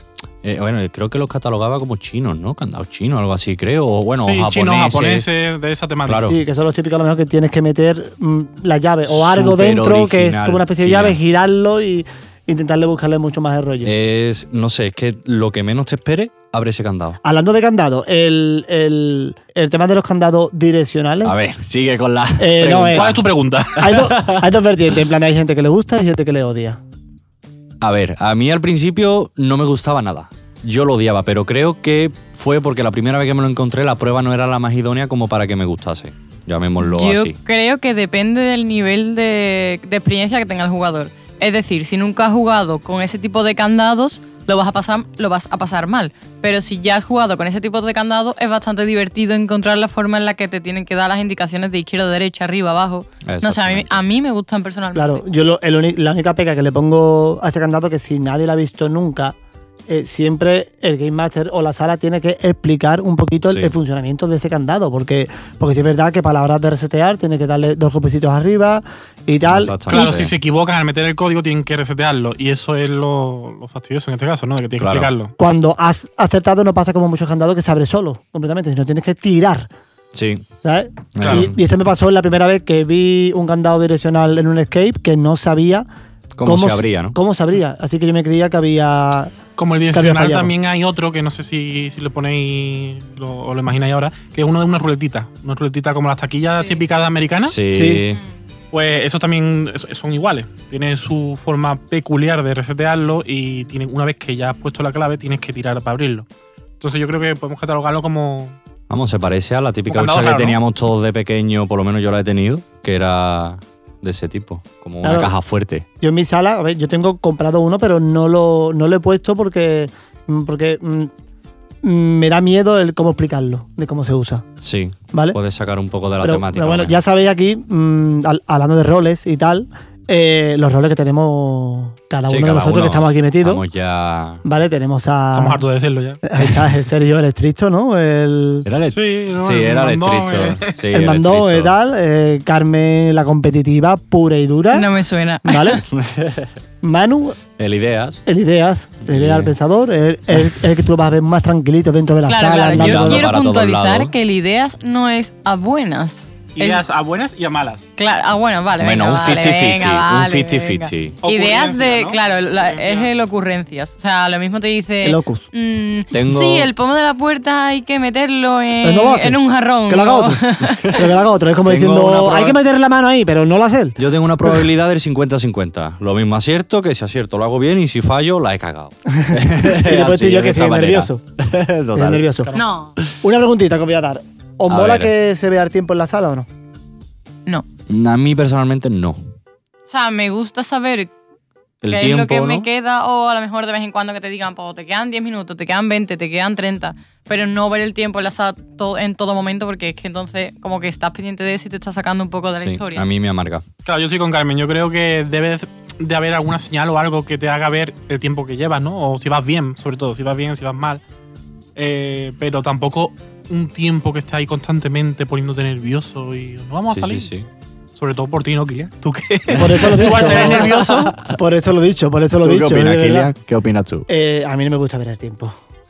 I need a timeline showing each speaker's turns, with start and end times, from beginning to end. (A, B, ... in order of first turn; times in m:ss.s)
0:00.4-0:05.3 A
0:04.2-0:06.3 B
0:06.0-0:06.4 A
0:06.2-0:13.9 C
0:09.0-0:11.2 A
0:13.8-0:17.2 A
0:17.2-0:21.4 C
0:21.2-0:23.2 A
0:22.4-0:23.2 C
0:22.8-0:24.1 B
0:23.8-0:26.8 C
0:23.9-0:24.4 A
0:27.8-0:37.4 A
0:36.8-0:55.2 D
0:53.2-0:54.0 A
0:54.9-0:59.4 C
0:59.9-1:10.3 C
1:03.4-1:03.7 A
1:09.4-1:10.3 A
1:09.9-1:15.3 B
1:14.8-1:15.1 A
1:15.4-1:19.7 C
1:20.1-1:20.4 A
1:20.6-1:25.8 C
1:21.1-1:21.6 A
1:21.2-1:21.5 B
1:26.3-1:27.2 A
1:26.4-1:29.4 C
1:29.6-1:37.6 B
1:29.9-1:30.5 C
1:36.5-1:36.8 D
1:37.4-1:38.2 A
1:37.7-1:38.0 C
1:38.7-1:46.2 B
1:46.8-1:48.6 B
1:48.9-1:55.8 A
1:49.9-1:50.6 B
1:55.0-1:55.3 C
1:56.0-2:01.1 C
2:01.8-2:04.4 C
2:04.6-2:07.0 A
2:05.1-2:05.4 C
2:06.2-2:13.6 C
2:12.3-2:14.4 A
2:14.4-2:15.6 C
2:15.3-2:16.2 B
2:16.2-2:18.6 C
2:18.6-2:21.7 A
2:18.9-2:20.7 B
2:20.9-2:24.9 C
2:24.7-2:25.8 D
2:25.4-2:25.8 C
2:25.9-2:26.5 A
2:26.8-2:27.4 C
2:27.6-2:28.2 A
2:28.2-2:33.3 C
2:29.0-2:29.5 A
2:32.2-2:36.8 D
2:32.7-2:34.1 A
2:36.6-2:37.8 B
2:38.0-2:51.0 D
2:38.8-2:41.2 A
2:41.2-2:43.1 B
2:45.0-2:45.5 C
2:46.1-2:46.7 A
2:48.8-2:54.6 C
2:51.6-2:52.6 A
2:54.0-3:02.5 A
2:59.1-3:01.2 C
3:01.9-3:02.5 C
3:02.5-3:03.0 D
3:03.2-3:06.5 C
3:04.7-3:05.1 A
3:07.9-3:09.2 A
3:09.9-3:11.1 D
3:11.8-3:12.7 A
3:11.9-3:23.0 D
3:22.6-3:23.6 A
3:23.8-3:31.0 B
3:31.8-3:37.3 B
3:36.9-3:37.5 A
3:38.0-3:41.2 B
3:39.5-3:41.3 A
3:39.5-3:40.7 C
3:41.3-3:43.3 C
3:42.4-3:44.1 A
3:44.1-3:45.5 C